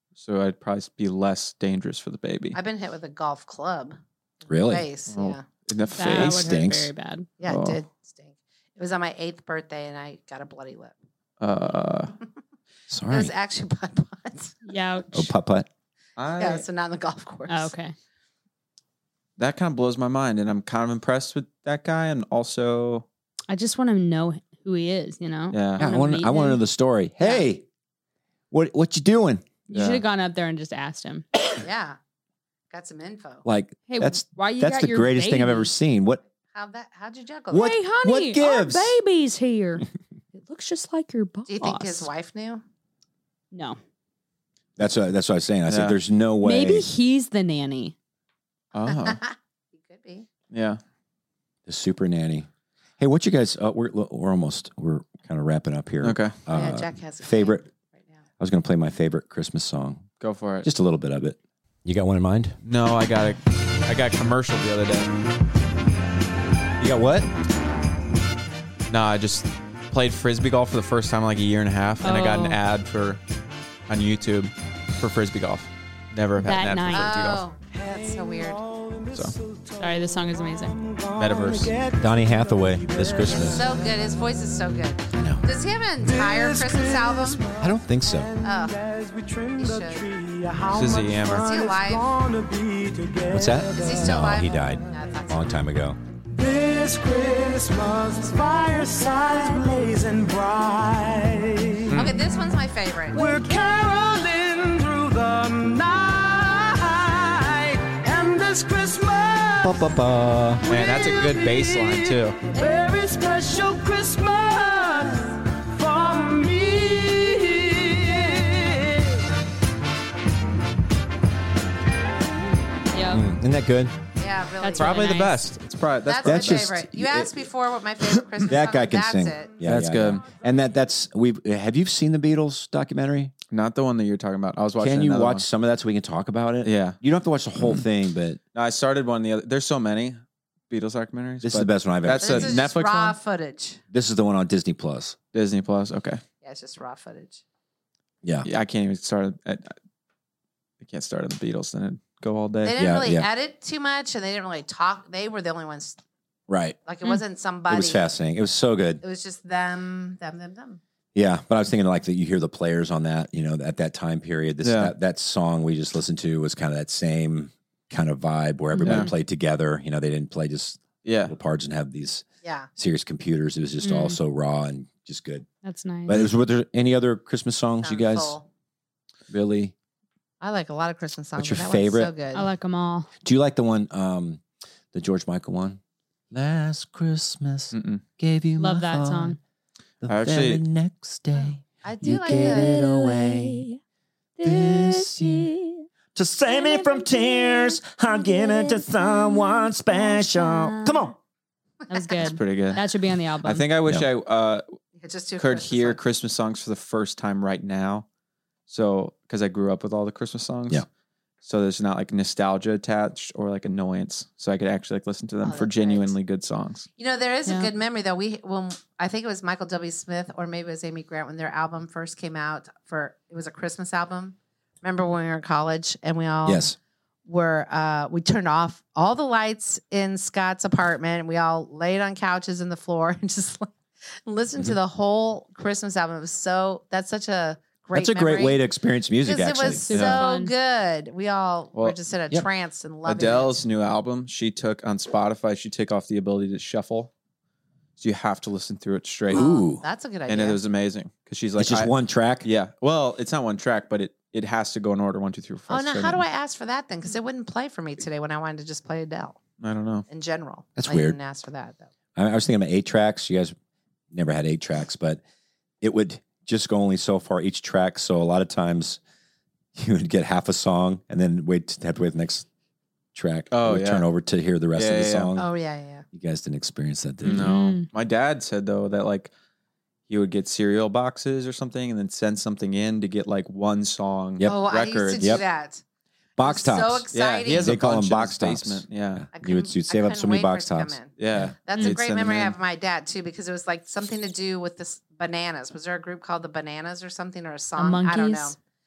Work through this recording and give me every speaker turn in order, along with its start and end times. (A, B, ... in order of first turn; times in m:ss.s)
0:00.2-0:02.6 A
0:02.5-0:05.4 B
0:04.5-0:04.9 C
0:05.1-0:06.4 A
0:06.0-0:07.3 D
0:06.1-0:06.9 C
0:07.4-0:10.9 B
0:07.4-0:07.8 A
0:11.4-0:12.1 A
0:12.9-0:13.3 C
0:13.1-0:14.6 B
0:14.6-0:15.3 D
0:15.1-0:15.7 C
0:16.2-0:16.6 A
0:16.4-0:17.7 B
0:17.5-0:17.9 D
0:19.4-0:23.0 A
0:23.5-0:26.6 D
0:25.5-0:25.8 A
0:25.8-0:27.6 C
0:28.5-0:29.5 C
0:29.7-0:31.2 D
0:29.7-0:30.0 A
0:31.6-0:32.0 B
0:32.7-0:33.4 B
0:33.4-0:36.2 C
0:33.9-0:35.7 D
0:36.5-0:37.8 B
0:37.5-0:38.9 C
0:37.5-0:42.1 D
0:41.5-0:42.6 B
0:43.5-0:43.8 D
0:44.8-0:46.9 C
0:45.7-0:46.0 A
0:46.4-0:47.9 D
0:48.7-0:49.2 A
0:48.9-0:50.3 B
0:50.5-0:50.8 A
0:51.6-0:52.5 C
0:53.0-0:57.6 C
0:56.0-0:56.4 A
0:56.5-0:58.2 B
0:58.4-1:00.0 C
1:00.2-1:00.7 A
1:00.6-1:02.6 C
1:02.6-1:05.1 A
1:06.8-1:07.3 C
1:08.9-1:13.2 A
1:12.0-1:12.6 D
1:13.9-1:17.4 A
1:16.4-1:17.1 D
1:16.9-1:18.6 B
1:19.8-1:20.8 D
1:21.1-1:21.8 A
1:22.0-1:23.7 C
1:23.3-1:27.5 B
1:27.6-1:28.3 C
1:28.4-1:28.8 B
1:28.9-1:29.6 E
1:29.5-1:30.1 B
1:30.2-1:33.3 E
1:30.7-1:31.5 A
1:31.3-1:32.1 B
1:33.3-1:36.0 C
1:33.7-1:35.6 B
1:36.4-1:41.8 E
1:41.9-1:42.2 A
1:41.9-1:43.3 B
1:43.4-1:49.6 E
1:49.6-1:50.7 C
1:50.6-1:52.4 A
1:52.6-1:55.2 E
1:55.8-1:58.7 E
2:02.9-2:03.2 D
2:03.1-2:03.9 C
2:04.2-2:05.2 B
2:04.6-2:05.4 D
2:04.8-2:06.8 A
2:06.0-2:09.6 B
2:06.2-2:07.4 C
2:08.4-2:13.3 C
2:09.6-2:10.2 A
2:13.5-2:15.4 A
2:14.8-2:18.4 C
2:16.6-2:17.0 A
2:18.5-2:23.2 A
2:21.4-2:22.7 C
2:22.2-2:23.8 B
2:23.9-2:25.2 C
2:25.3-2:26.2 A
2:26.4-2:27.4 B
2:28.4-2:29.7 A
2:30.8-2:32.8 A
2:32.6-2:36.0 B
2:32.8-2:33.3 C
2:36.5-2:36.8 C
2:36.8-2:38.0 B
2:37.7-2:39.0 C
2:39.0-2:40.8 B
2:41.1-2:52.2 C
2:44.6-2:44.9 A
2:48.7-2:49.1 D
2:48.8-2:49.1 A
2:51.0-2:51.3 A
2:52.4-2:52.7 B
2:52.8-2:55.5 C
2:53.8-2:54.2 D
2:55.6-2:56.2 D
2:56.1-2:58.4 C
2:57.8-2:58.5 B
2:59.3-2:59.7 C
3:00.4-3:02.5 B
3:01.4-3:02.1 C
3:02.3-3:03.1 D
3:03.2-3:04.4 C
3:04.9-3:05.8 C
3:06.3-3:09.4 C
3:07.7-3:08.0 A
3:08.6-3:09.4 D
3:10.0-3:13.7 C
3:10.1-3:10.6 A
3:11.8-3:12.8 B
3:12.5-3:13.7 D
3:14.4-3:15.7 D
3:14.4-3:15.5 C
3:16.2-3:21.1 F
3:16.2-3:17.0 C
3:17.6-3:18.8 C
3:18.4-3:21.0 D
3:20.8-3:21.1 C
3:21.9-3:23.7 D
3:21.9-3:22.4 B
3:22.2-3:22.8 A
3:23.4-3:24.6 A
3:25.0-3:26.0 B
3:25.4-3:28.0 A
3:28.7-3:30.8 A
3:31.4-3:36.9 A
3:35.4-3:36.1 B
3:37.0-3:46.7 B
3:37.4-3:37.7 D
3:46.4-3:46.8 C
3:47.2-3:53.7 B
3:54.2-3:58.6 B
3:57.9-3:59.8 C
3:59.2-4:03.6 B
3:59.6-4:00.5 D
3:59.9-4:00.2 A
4:03.0-4:07.1 A
4:08.0-4:09.5 A
4:09.3-4:09.8 C
4:09.3-4:10.6 B
4:10.3-4:11.9 A
4:11.6-4:12.5 C
4:12.4-4:16.2 A
4:15.7-4:19.4 B
4:19.6-4:20.1 A
4:20.1-4:21.9 B
4:20.8-4:21.2 C
4:22.2-4:23.5 C
4:24.1-4:25.2 C
4:25.8-4:29.0 C
4:29.7-4:32.4 C
4:33.1-4:35.5 C
4:33.5-4:34.0 A
4:34.8-4:35.3 A
4:35.3-4:36.0 B
4:36.1-4:37.5 C
4:37.2-4:39.3 A
4:37.4-4:37.9 D
4:40.1-4:45.4 A
4:44.4-4:45.4 C
4:44.4-4:45.8 B
4:46.4-4:51.5 C
4:46.4-4:47.8 B
4:47.1-4:49.3 A
4:49.3-4:58.6 B
4:51.2-4:52.5 A
4:57.8-4:58.5 D